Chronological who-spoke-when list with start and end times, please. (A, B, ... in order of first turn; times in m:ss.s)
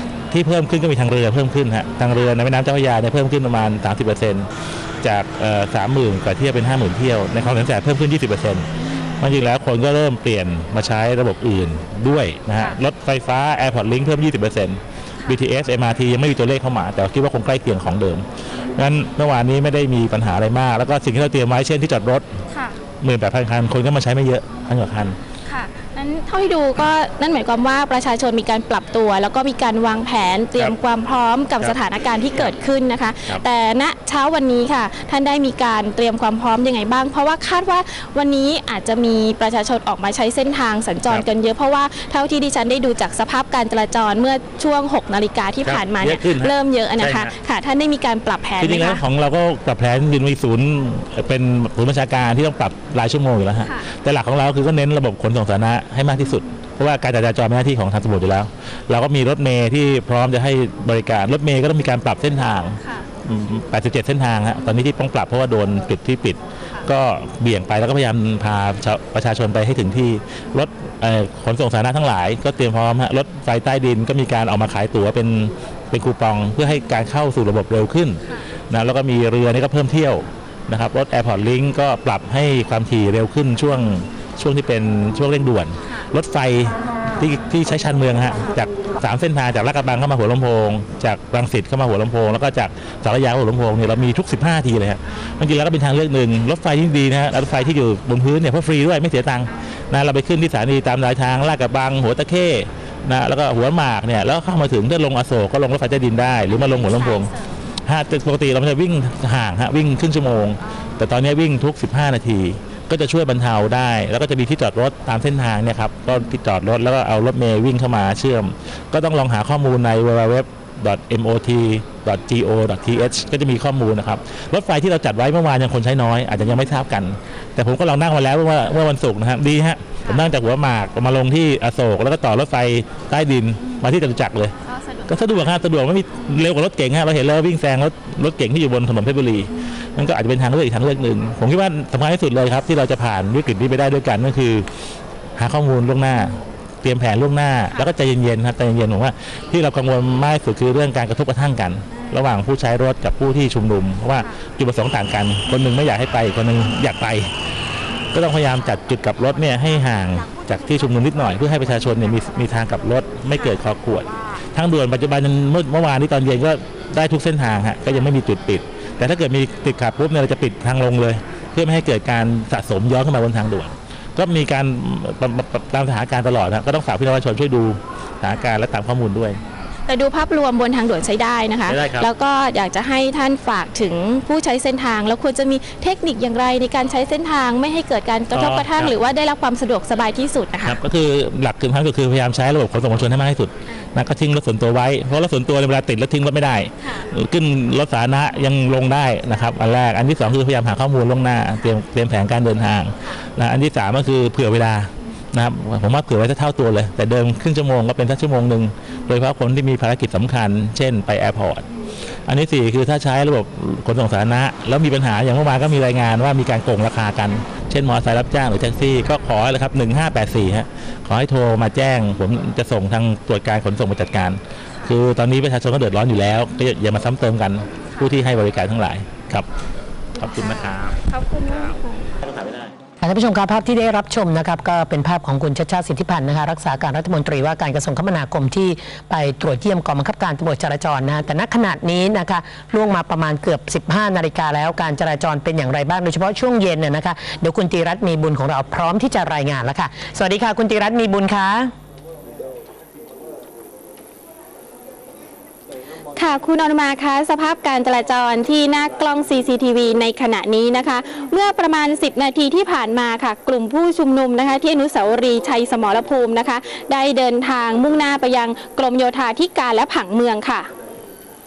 0:00.3-0:04.5 A
0:05.0-0:22.2 A
0:23.0-0:25.2 A
0:25.4-0:49.0 B
0:45.6-0:47.3 A
0:48.6-1:47.3 A
1:46.6-1:47.6 B
1:47.8-2:14.5 A
1:50.6-1:51.1 B
2:10.0-2:10.3 B
2:13.6-2:13.8 B
2:14.6-2:15.5 B
2:15.1-2:24.7 A
2:25.4-2:37.3 A
2:26.1-2:26.4 B
2:31.9-2:32.2 B
2:38.1-2:59.4 A
2:59.8-3:10.8 B
3:01.7-3:02.1 A
3:08.3-3:08.9 A
3:10.6-3:31.6 A
3:13.7-3:13.9 B
3:16.8-3:17.1 B
3:32.2-3:49.4 A
3:50.2-3:52.0 B
3:50.2-3:52.7 A
3:53.0-4:11.7 C
4:16.1-4:30.7 B